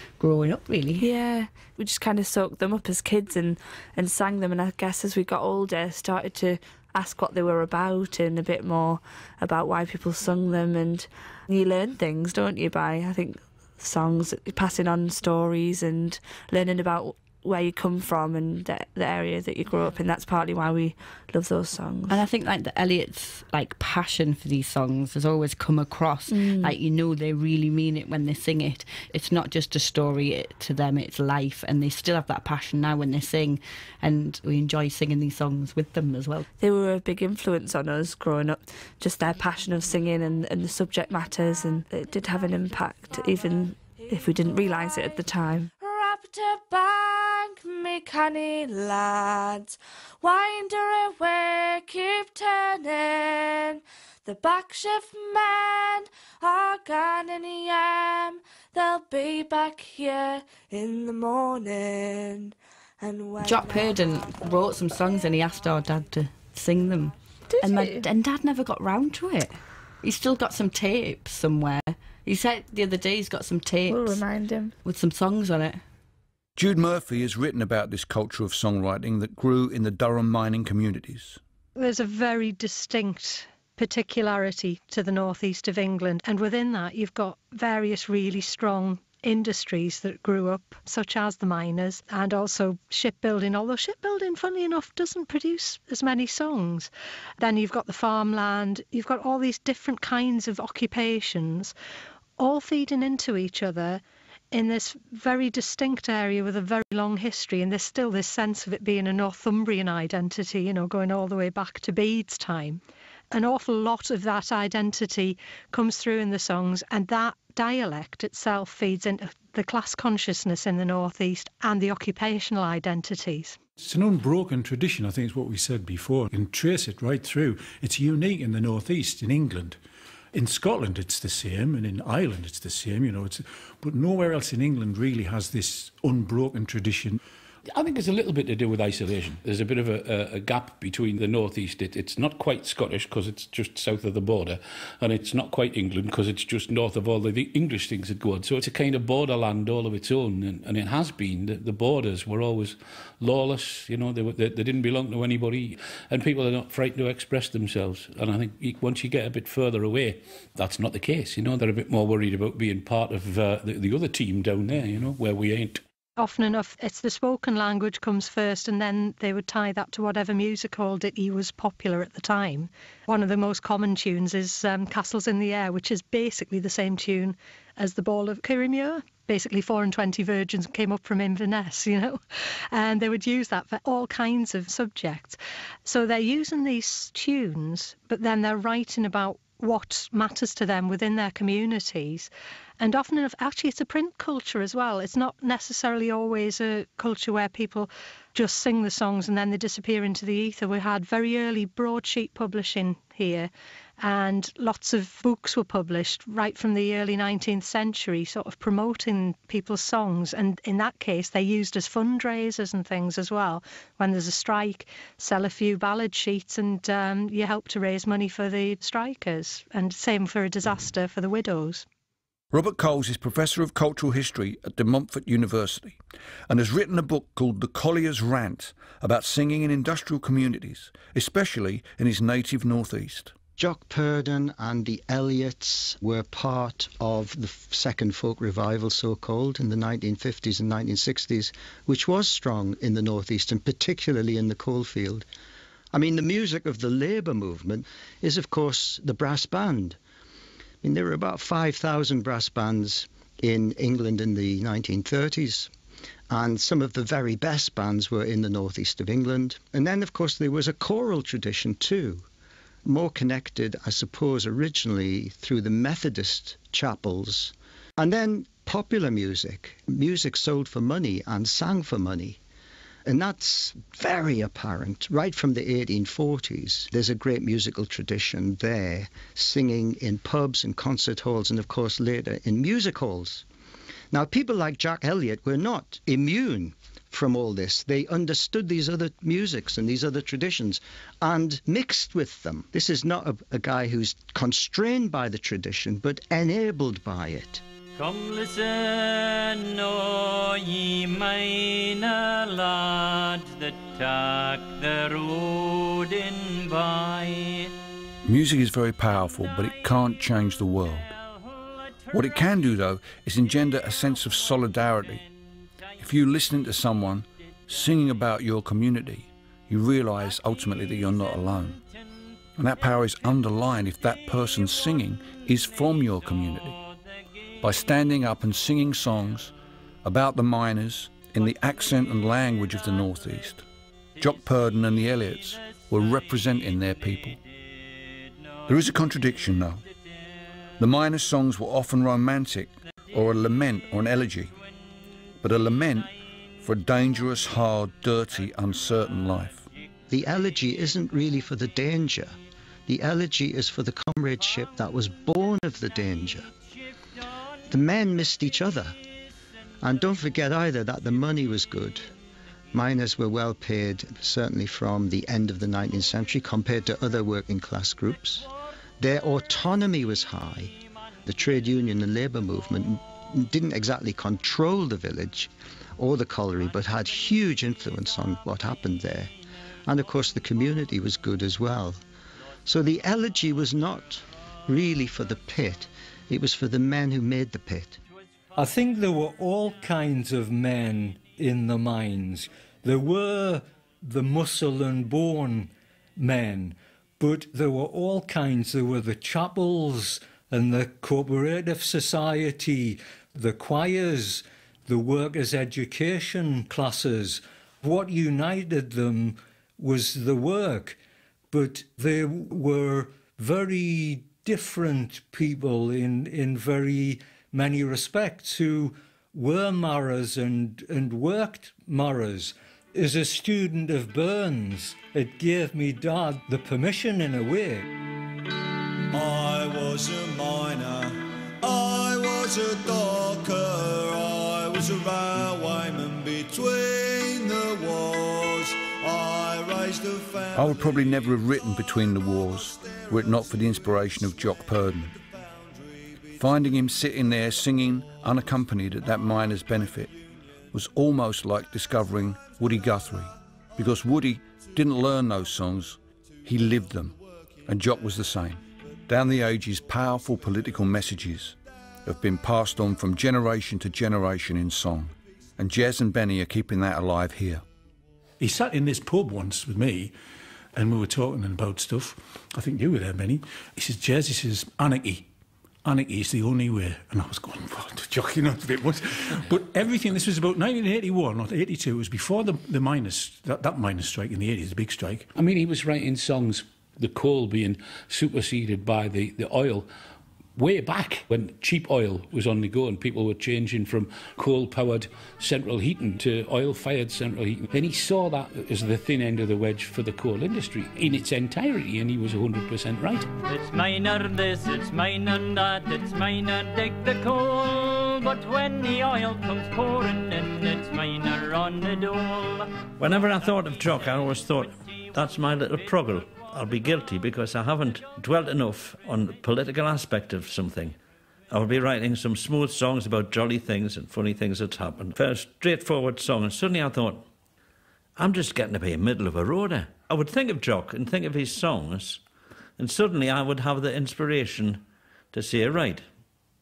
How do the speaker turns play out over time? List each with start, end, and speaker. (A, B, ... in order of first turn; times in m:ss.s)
0:00.2-0:01.1 A
0:01.0-0:22.2 B
0:22.1-0:36.4 A
0:26.3-0:26.8 B
0:36.6-0:45.7 B
0:45.8-1:03.9 C
1:03.4-1:14.2 A
1:07.5-1:08.1 B
1:13.9-1:14.7 B
1:14.8-1:15.8 A
1:16.6-1:21.4 D
1:21.8-1:41.7 E
1:42.4-2:03.6 E
2:03.8-2:09.8 F
2:10.3-2:17.2 F
2:17.7-2:45.8 G
2:46.2-3:41.8 E
3:42.5-3:46.0 D
3:46.5-3:53.3 D
3:53.6-4:05.2 H
4:05.9-4:10.0 H
4:10.8-4:15.7 H
4:16.3-4:22.2 H
4:22.8-4:32.4 H
4:33.0-4:43.4 H
4:44.1-4:57.6 H
4:58.0-5:07.7 I
5:08.2-5:11.1 D
5:12.1-5:15.2 D
5:16.0-5:21.8 D
5:22.6-5:26.8 D
5:27.6-5:29.5 D
5:30.0-5:33.6 D
5:34.2-5:37.4 D
5:38.7-5:39.8 D
5:40.8-5:44.5 D
5:45.4-5:49.7 D
5:50.1-5:52.4 H
5:52.9-5:56.5 H
5:57.7-5:58.9 H
5:59.8-6:02.1 H
6:02.7-6:10.7 H
6:11.2-6:19.3 H
6:19.8-6:22.0 H
6:22.6-6:28.0 H
6:28.6-6:51.0 J
6:51.5-7:07.9 J
7:09.1-7:21.4 K
7:20.5-7:25.1 D
7:22.5-7:24.6 K
7:25.1-7:26.3 K
7:26.4-7:30.2 D
7:30.7-7:47.6 D
7:48.4-7:50.1 F
7:50.7-7:55.3 F
7:55.8-8:05.3 F
8:05.4-8:09.9 G
8:10.6-8:23.3 G
8:23.4-8:32.7 I
8:33.0-8:41.0 L
8:41.5-8:47.2 L
8:48.2-8:52.2 L
8:52.8-8:56.0 L